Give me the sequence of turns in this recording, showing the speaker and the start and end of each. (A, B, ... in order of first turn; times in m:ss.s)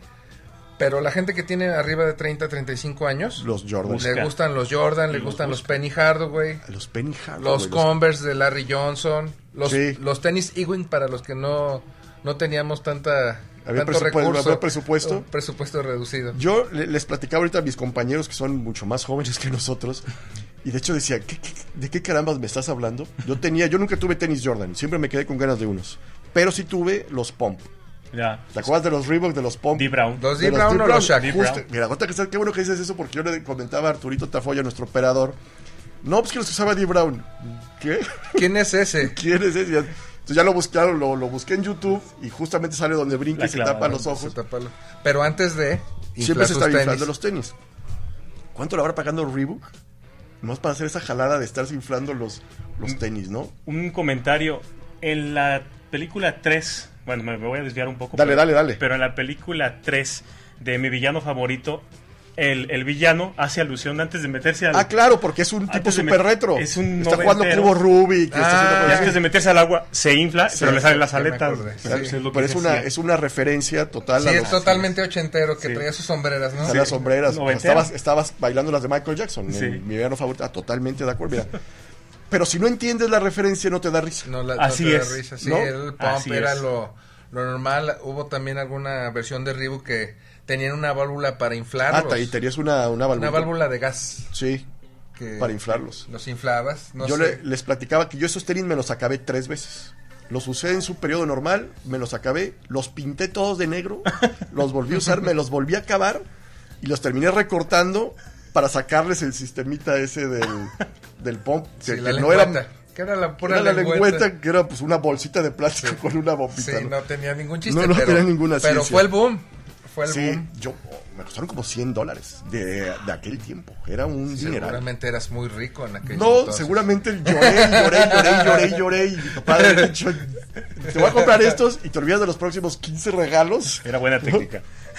0:00.8-0:03.5 A
0:03.4-0:04.2 B
0:03.9-0:04.3 C
0:04.0-0:06.6 A
0:05.1-0:05.8 C
0:06.6-0:07.9 B
0:07.4-0:16.4 A
0:09.6-0:10.0 B
0:13.6-0:15.3 B
0:16.3-0:20.1 B
0:20.6-0:27.7 B
0:28.1-0:28.7 C
0:28.5-0:35.4 B
0:29.8-0:30.3 C
0:30.2-0:31.5 A
0:31.1-0:31.6 C
0:36.0-0:44.4 B
0:38.4-0:39.2 A
0:43.3-0:44.1 C
0:43.9-0:47.1 A
0:46.2-0:47.6 B
0:48.5-0:49.7 B
0:50.4-0:53.5 B
0:53.6-1:01.8 C
0:58.1-0:58.8 B
1:02.4-1:04.9 C
1:04.7-1:09.2 B
1:05.7-1:07.8 C
1:08.3-1:09.2 A
1:08.8-1:12.9 C
1:10.5-1:10.8 B
1:10.6-1:12.1 A
1:11.8-1:14.8 B
1:14.2-1:16.8 A
1:14.4-1:14.9 C
1:16.6-1:17.9 C
1:16.6-1:21.5 B
1:19.5-1:19.8 C
1:22.3-1:24.3 B
1:24.2-1:32.4 A
1:24.6-1:25.2 C
1:25.4-1:25.7 B
1:26.0-1:26.6 C
1:31.9-1:33.6 B
1:33.1-1:34.4 A
1:34.3-1:34.7 B
1:35.2-1:37.4 A
1:35.4-1:36.0 B
1:37.0-1:46.2 B
1:46.8-1:52.6 B
1:51.8-1:54.3 A
1:53.4-1:57.0 B
1:55.8-1:56.0 A
1:56.5-2:00.5 A
1:57.7-1:59.1 B
2:00.0-2:04.8 B
2:04.3-2:08.8 A
2:06.1-2:14.4 B
2:09.5-2:09.9 A
2:13.8-2:14.6 C